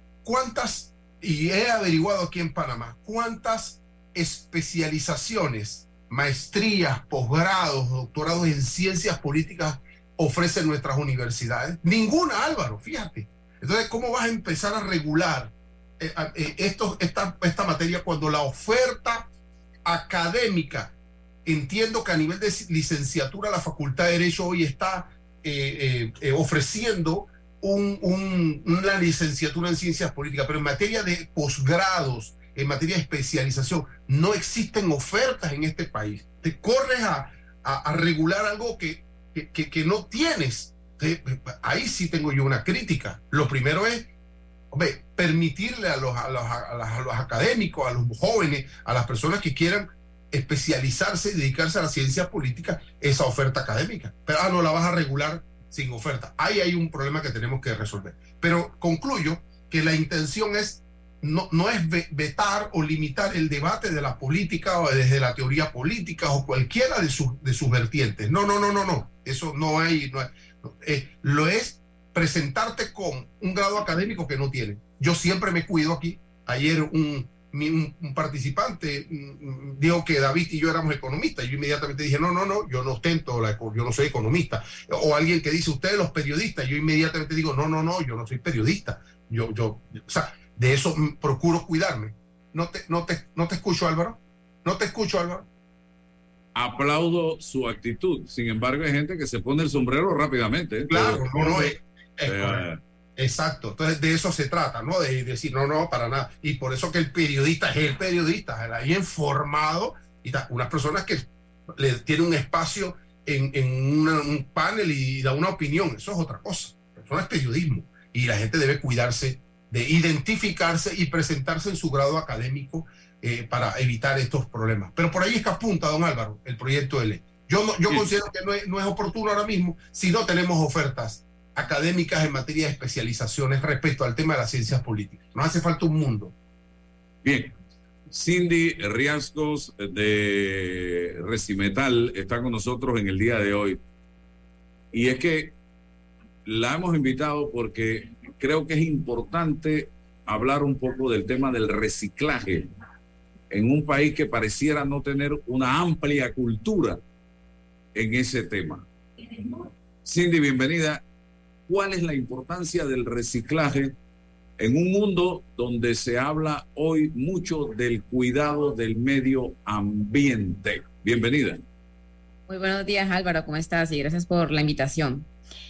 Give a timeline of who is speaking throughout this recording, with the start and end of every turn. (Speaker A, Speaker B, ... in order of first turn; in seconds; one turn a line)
Speaker A: 0.2-19.3
Speaker A: 19.8-20.9
Speaker A: 21.4-44.1
Speaker A: 44.7-95.5
Speaker B: 96.5-101.7
Speaker A: 100.9-102.6
Speaker B: 102.2-102.8
Speaker A: 103.2-136.3
Speaker B: 137.2-137.5
Speaker B: 138.1-143.8
Speaker B: 144.9-145.5
Speaker B: 146.4-152.7
Speaker B: 153.5-157.0
Speaker B: 157.9-158.8
Speaker B: 160.0-161.0
Speaker B: 161.7-163.9
Speaker B: 164.6-171.6
Speaker C: 172.5-175.2